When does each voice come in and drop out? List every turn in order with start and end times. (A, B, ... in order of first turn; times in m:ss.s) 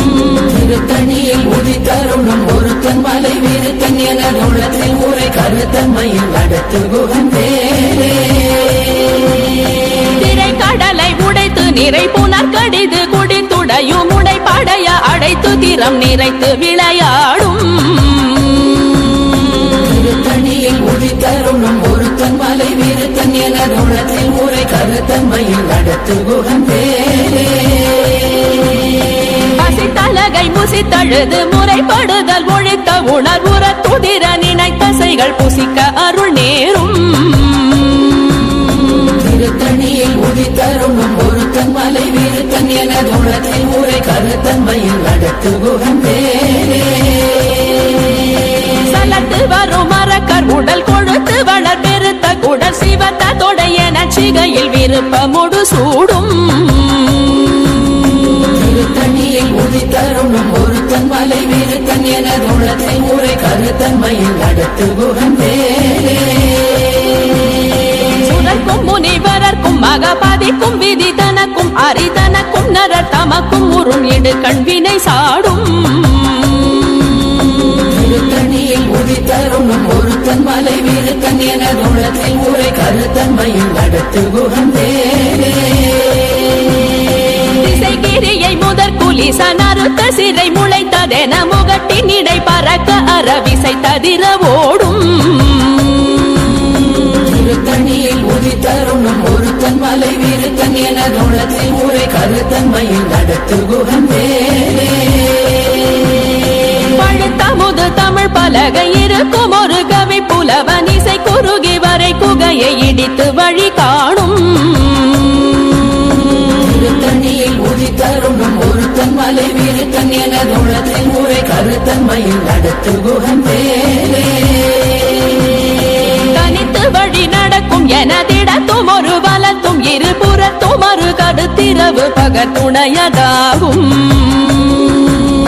0:00.4-0:08.6 A
0:10.1-0:18.9 B
0:19.8-0:27.9 A
0:29.5-0:38.2 B
0:39.1-0:47.3 A
0:48.8-0:57.7 B
0:58.5-1:06.4 A
1:08.1-1:17.0 B
1:17.8-1:25.9 A
1:27.5-1:36.5 B
1:37.2-1:45.3 A
1:46.8-1:55.7 B
1:56.6-2:04.6 A
2:06.2-2:15.1 B